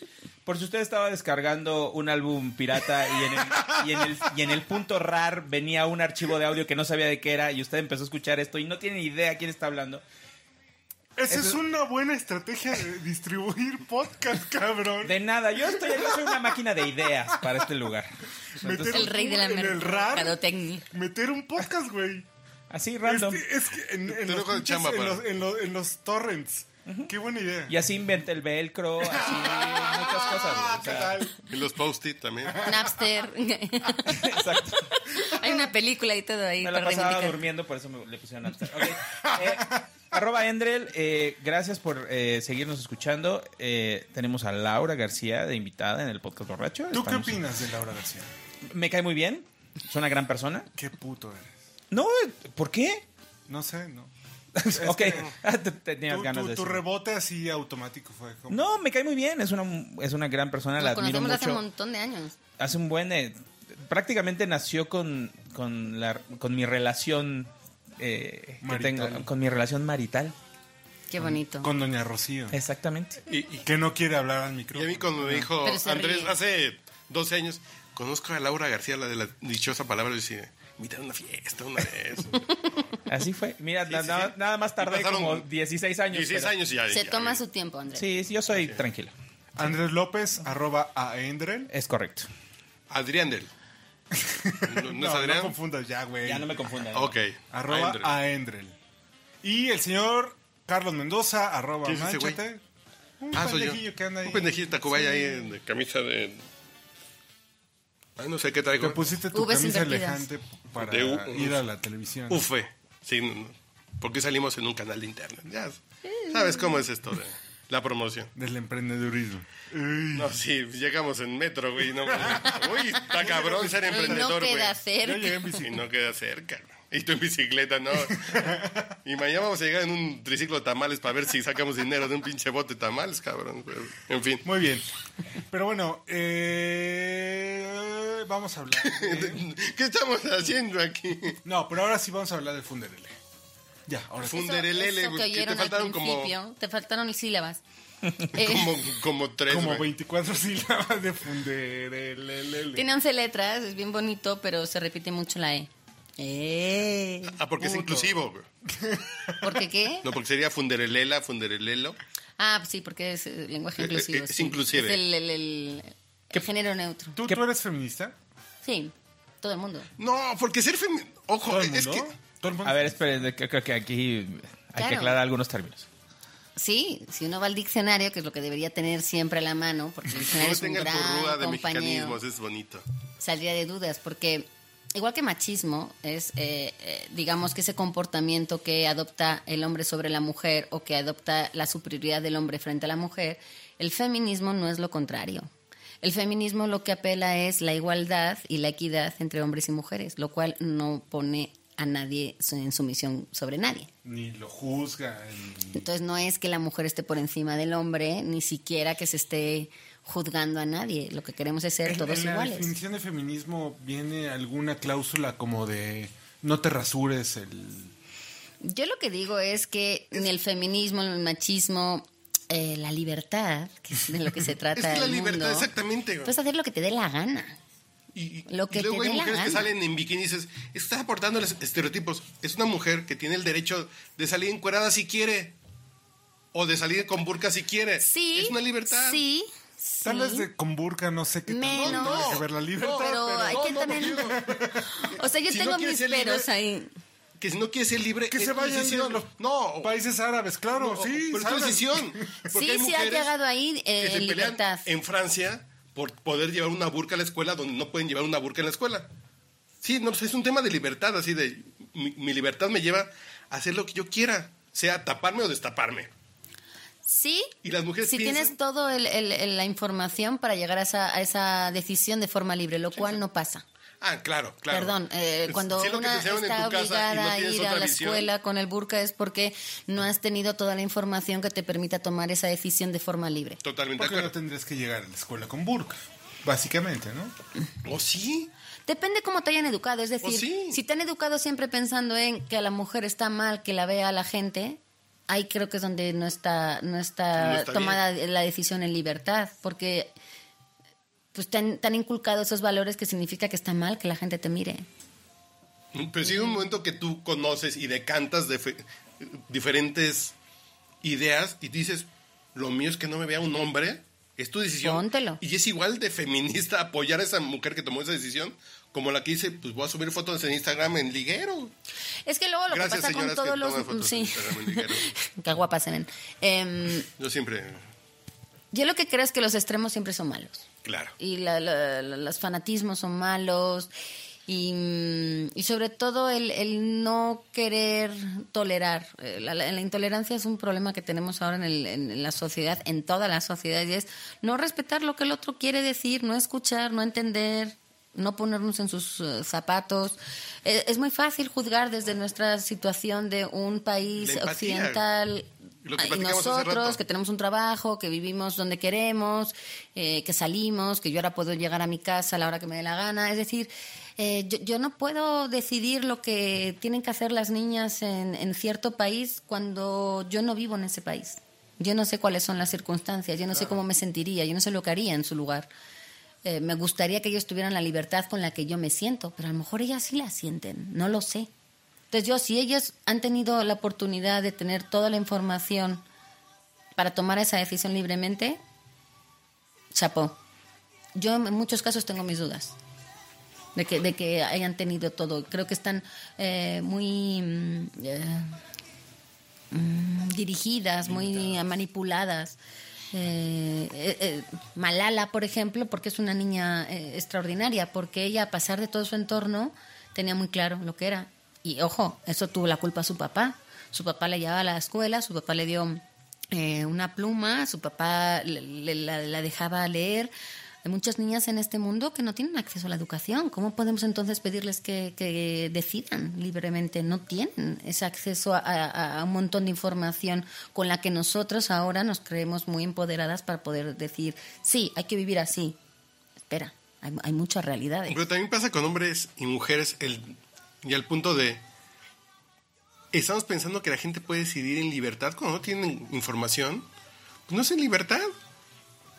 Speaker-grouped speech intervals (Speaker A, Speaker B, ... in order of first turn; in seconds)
Speaker A: 0.4-10.0, 11.3-11.6, 15.0-19.1, 22.7-23.4, 27.7-31.1, 34.1-35.0, 36.6-47.4, 48.7-50.7, 51.9-53.0, 54.6-56.8, 58.5-61.6, 62.6-70.3, 72.5-73.2, 83.1-86.5, 87.9-89.1, 91.7-92.3, 96.2-97.1, 172.6-175.9
Speaker B: 3.5-4.0, 11.2-16.5, 17.3-17.6, 18.6-20.4, 20.9-22.2, 23.0-27.8, 29.0-31.3, 38.8-39.8, 46.9-48.3, 50.7-51.5, 53.5-54.1, 54.6-55.3, 56.1-58.7, 68.6-69.3, 71.2-72.6, 73.6-75.5, 89.5-91.7, 94.1-96.5, 97.5-98.7, 99.4-102.6, 103.2-104.5, 108.8-112.5, 118.3-120.4, 122.1-124.4, 125.0-125.8, 128.1-128.8, 134.4-134.9, 135.5-139.4, 141.4-143.2, 143.9-144.6, 149.5-152.8, 158.7-159.5, 167.2-168.1, 171.4-173.2, 204.0-205.8, 211.8-217.9, 240.0-244.9, 248.3-252.2, 284.0-287.3
Speaker C: 18.9-20.8, 32.6-34.3, 34.9-37.3, 60.8-62.3, 71.1-71.7, 75.6-76.3, 86.9-88.0, 109.3-110.2, 116.0-116.7, 123.9-125.5, 144.3-147.6, 148.3-148.7, 152.7-158.2, 159.4-160.0, 162.4-167.2, 168.6-169.9, 174.8-175.2, 176.6-182.2, 183.2-195.5, 196.0-203.9, 205.7-212.7, 218.6-225.7, 226.2-227.6, 228.5-229.7, 238.0-240.5, 241.5-244.3, 244.9-246.9, 252.5-254.8, 267.0-273.6, 274.7-283.6, 288.9-300.1, 301.3-304.9, 306.3-306.5, 314.8-315.4, 322.2-327.1, 328.7-330.6, 331.2-333.9, 334.5-375.7, 376.4-381.5, 382.1-386.0, 387.0-388.6, 389.9-390.4, 391.1-392.8, 393.7-398.6, 399.7-402.6, 403.1-420.3, 420.8-435.8, 436.5-438.2
Speaker D: 24.1-25.2, 29.3-32.6, 73.3-73.6, 74.7-82.4, 83.9-85.5, 86.1-87.4, 92.9-93.5, 94.7-95.5, 96.9-98.1, 101.8-102.4, 103.3-106.4, 108.2-109.0, 110.8-111.6, 112.3-118.3, 120.1-124.8, 125.6-134.4, 138.8-141.4, 144.2-146.3, 148.3-149.8, 157.4-158.5, 160.0-162.0, 163.8-165.0, 170.0-172.1, 180.2-182.8, 224.8-226.3, 228.1-235.5, 236.5-239.2, 241.7-246.5, 247.4-249.9, 250.7-253.3, 254.0-259.1, 259.8-266.1, 267.6-268.5, 274.0-278.3, 283.6-284.3, 287.8-288.5, 290.2-290.8, 297.3-298.0, 305.9-310.3, 311.0-321.7, 322.7-325.1, 327.2-327.8, 330.8-331.1, 354.2-355.0, 355.9-357.0, 373.5-373.8, 401.0-401.6, 438.1-441.6, 443.1-446.9, 447.5-448.3